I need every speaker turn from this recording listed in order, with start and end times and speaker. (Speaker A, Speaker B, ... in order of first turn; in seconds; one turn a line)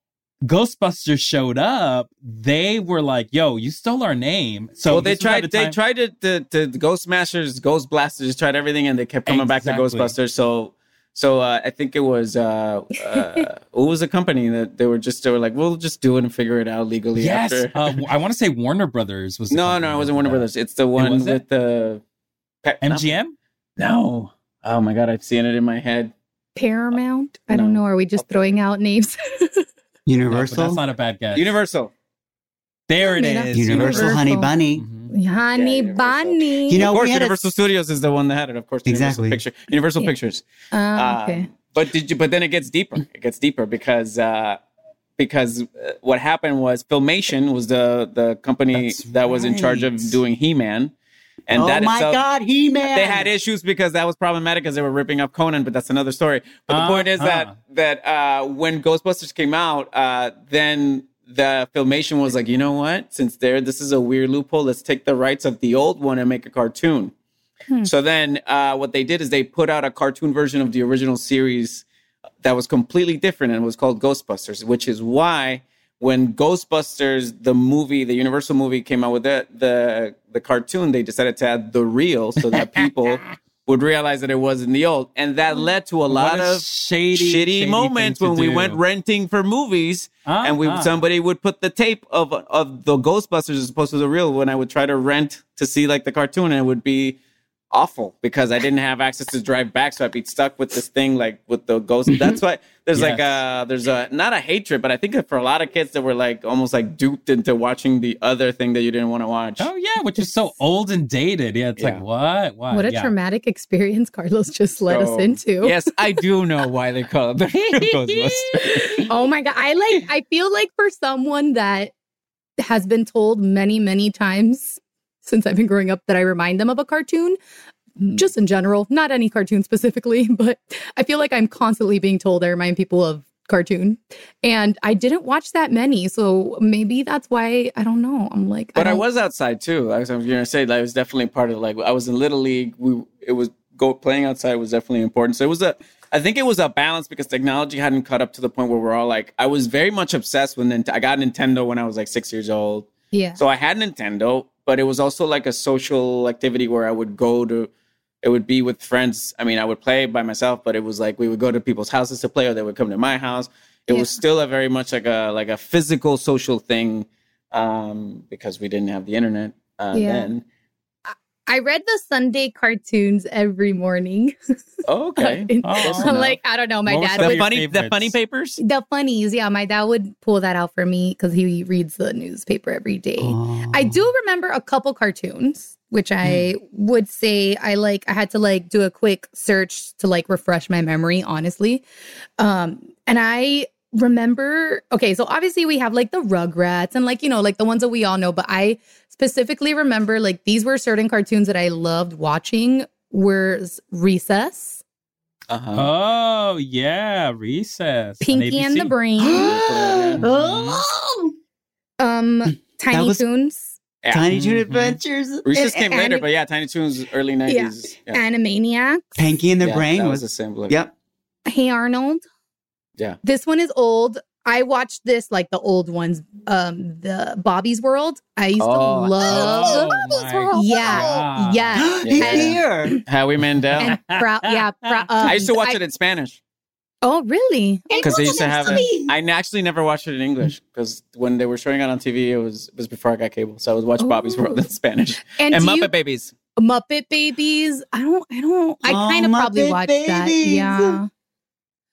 Speaker A: 0.4-5.8
Speaker B: 4.9-18.0
Speaker A: 9.2-10.1
Speaker A: 17.1-21.4
Speaker B: 19.5-22.0
Speaker B: 22.6-23.1
Speaker A: 22.8-23.3
Speaker B: 23.8-26.1
Speaker C: 26.6-29.6
Speaker B: 27.5-28.5
Speaker D: 30.1-30.8
Speaker A: 30.3-31.5
Speaker B: 31.3-31.9
Speaker A: 32.9-34.2
Speaker C: 33.0-34.5
Speaker D: 33.5-34.8
Speaker A: 34.7-35.1
Speaker C: 35.1-36.9
Speaker B: 35.5-40.4
Speaker D: 36.7-37.5
Speaker D: 38.9-39.4
Speaker C: 40.7-41.5
Speaker B: 40.9-44.6
Speaker B: 45.2-50.9
Speaker D: 48.7-50.2
Speaker B: 51.5-52.2
Speaker D: 51.5-53.3
Speaker B: 52.9-67.1
Speaker A: 56.7-57.6
Speaker B: 67.8-71.8
Speaker B: 72.4-97.2
Speaker A: 82.5-83.3
Speaker A: 86.1-88.8
Speaker A: 90.2-90.9
Speaker B: 97.7-109.7
Speaker A: 102.9-103.4
Speaker A: 109.6-113.1
Speaker B: 111.8-112.0
Speaker C: 112.7-115.8
Speaker B: 114.9-119.1
Speaker C: 117.7-121.9
Speaker C: 122.6-127.4
Speaker C: 128.0-139.0
Speaker B: 138.7-157.7
Speaker C: 153.1-153.4
Speaker B: 158.2-170.4
Speaker C: 169.9-170.3
Speaker C: 171.1-174.3
Speaker B: 174.8-176.3
Speaker C: 175.2-177.4
Speaker A: 175.6-178.2
Speaker B: 177.2-178.6
Speaker C: 178.6-191.8
Speaker D: 183.2-184.1
Speaker C: 192.4-204.8
Speaker B: 205.5-205.9
Speaker A: 205.7-209.0
Speaker C: 208.2-209.6
Speaker D: 209.2-210.7
Speaker B: 209.3-210.2
Speaker C: 210.2-210.8
Speaker A: 210.2-210.8
Speaker C: 212.0-213.7
Speaker D: 212.4-213.2
Speaker B: 214.0-214.3
Speaker D: 214.1-215.4
Speaker A: 214.3-215.0
Speaker B: 215.4-218.2
Speaker C: 215.5-216.3
Speaker C: 217.5-219.2
Speaker D: 219.2-220.9
Speaker B: 219.6-220.8
Speaker C: 221.4-222.2
Speaker C: 223.2-229.9
Speaker B: 228.6-229.9
Speaker A: 229.2-231.9
Speaker C: 230.5-233.0
Speaker D: 231.8-233.0
Speaker B: 232.0-234.0
Speaker C: 233.8-235.8
Speaker A: 233.8-235.4
Speaker B: 235.2-236.4
Speaker C: 237.0-238.8
Speaker B: 238.0-246.3
Speaker D: 238.0-239.1
Speaker C: 244.0-244.7
Speaker C: 245.3-245.9
Speaker C: 246.6-251.1
Speaker D: 248.8-251.0